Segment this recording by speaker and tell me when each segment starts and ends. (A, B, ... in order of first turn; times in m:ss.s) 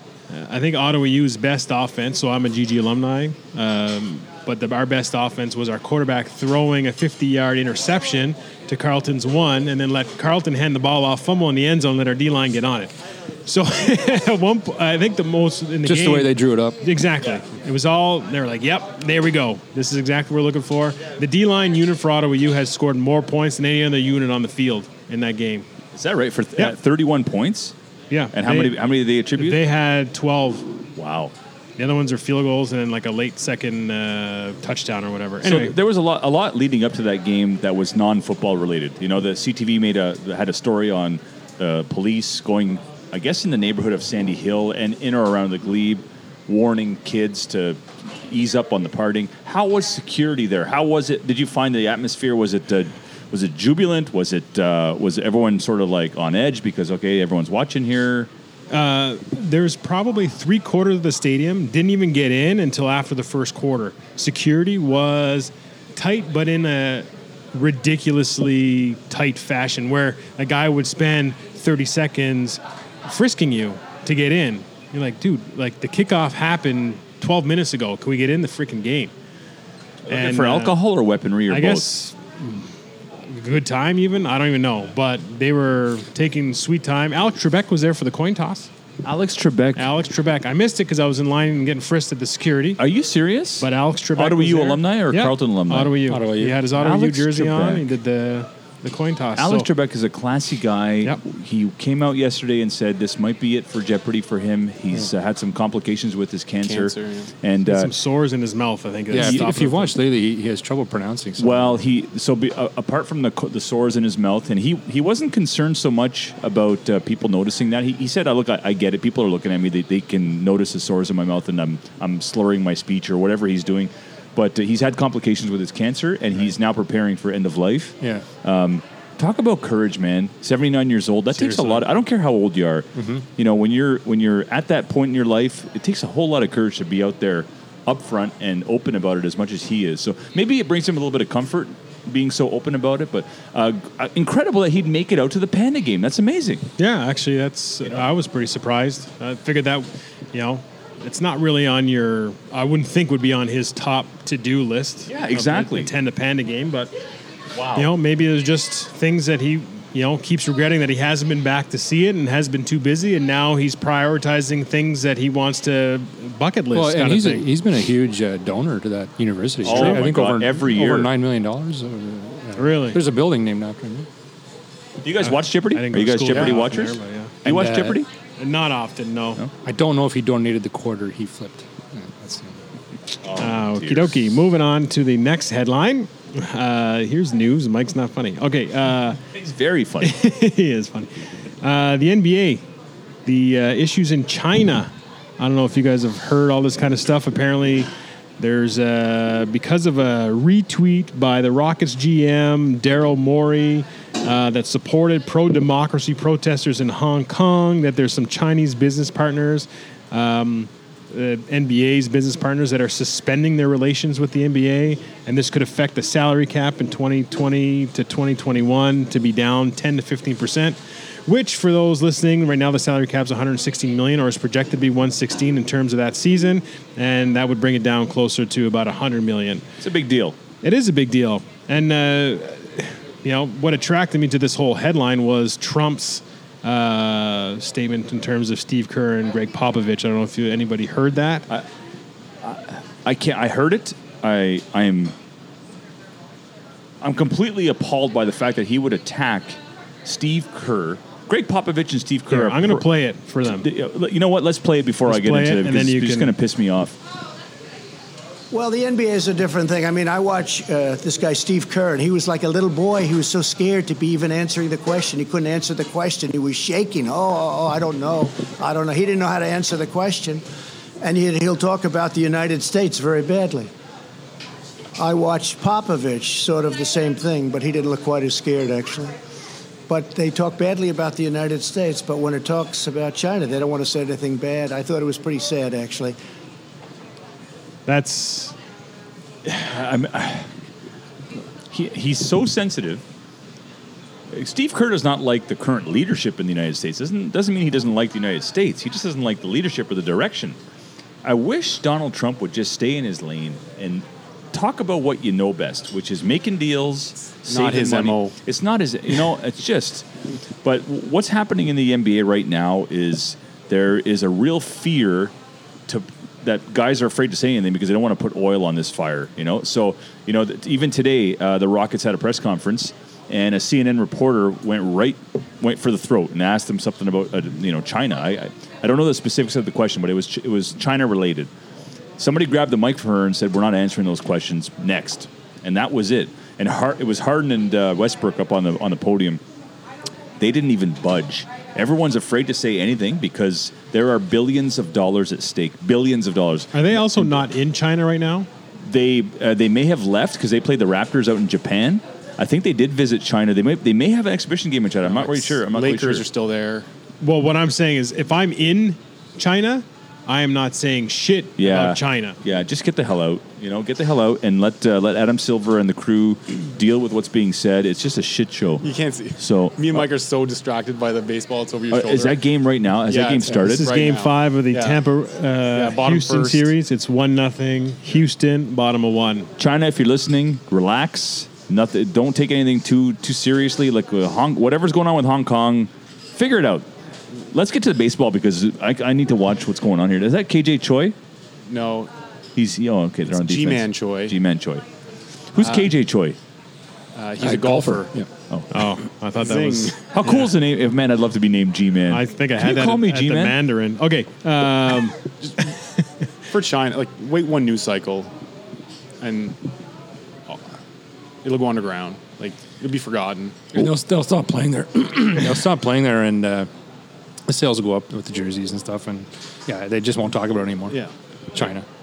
0:00.3-0:12.9 A
0:13.5-0:25.7 A
0:15.8-0:16.8 B
0:25.9-0:27.7 C
0:28.1-0:28.8 A
0:28.3-0:29.6 C
0:29.4-0:30.7 A
0:31.0-0:31.3 C
0:31.8-0:35.7 A
0:35.4-0:58.3 C
0:58.7-1:19.1 A
1:20.1-1:21.9 C
1:20.1-1:20.8 A
1:21.5-1:22.7 A
1:23.3-1:28.7 A
1:29.0-1:29.9 C
1:29.8-1:32.8 A
1:32.8-1:36.0 C
1:33.6-1:39.7 A
1:36.1-1:36.6 B
1:36.8-1:37.9 C
1:39.4-1:47.9 C
1:46.6-1:47.3 D
1:47.7-1:50.0 A
1:49.1-1:51.8 B
1:49.2-1:49.4 C
1:51.4-2:26.7 C
2:08.0-2:08.3 B
2:11.4-2:11.8 A
2:13.0-2:13.2 B
2:26.8-2:36.9 A
2:35.1-2:35.9 C
2:37.5-2:37.9 C
2:37.8-2:47.5 A
2:46.7-2:54.1 B
2:49.6-2:51.1 C
2:49.6-2:50.1 A
2:52.6-2:53.0 A
2:55.0-2:58.1 C
2:55.2-2:57.4 A
2:57.4-2:58.0 B
2:58.4-2:59.4 A
2:59.6-3:02.6 B
3:03.2-3:04.2 C
3:03.4-3:09.2 A
3:09.3-3:10.2 C
3:10.0-3:11.1 A
3:11.6-3:12.6 A
3:13.3-3:49.6 A
3:49.8-3:50.4 C
3:50.6-4:01.5 A
4:02.4-4:05.1 C
4:07.0-4:12.9 C
4:12.3-4:13.7 A
4:13.4-4:17.0 C
4:15.1-4:16.3 A
4:18.5-4:30.4 E
4:31.0-4:33.7 E
4:35.0-4:39.2 E
4:39.9-4:46.2 E
4:47.9-4:48.6 A
4:49.4-4:50.5 C
4:51.7-4:53.0 C
4:54.3-5:00.6 C
5:01.2-5:10.1 C
5:07.5-5:08.3 D
5:10.6-5:15.3 C
5:15.9-5:31.5 C
5:32.2-5:39.4 C
5:40.4-5:47.4 C
5:46.7-5:48.5 A
5:48.9-5:56.3 C
5:55.0-5:56.9 D
5:57.2-6:02.4 A
6:01.6-6:10.1 C
6:08.8-6:12.4 D
6:11.9-6:13.9 C
6:13.1-6:15.0 D
6:13.6-6:19.5 A
6:15.7-6:16.7 D
6:19.6-6:26.9 C
6:27.5-6:31.2 C
6:31.7-6:32.1 D
6:32.6-6:34.8 C
6:33.3-6:34.4 D
6:35.5-6:36.4 C
6:35.6-6:35.9 D
6:37.2-6:38.1 D
6:37.4-6:38.3 B
6:38.7-6:40.5 A
6:39.4-6:40.0 D
6:40.1-6:43.6 C
6:42.1-6:46.0 A
6:45.4-6:45.7 D
6:46.5-6:48.3 D
6:49.2-6:49.6 D
6:51.4-6:53.7 D
6:53.7-6:56.7 B
6:57.5-7:01.0 B
7:01.5-7:01.9 B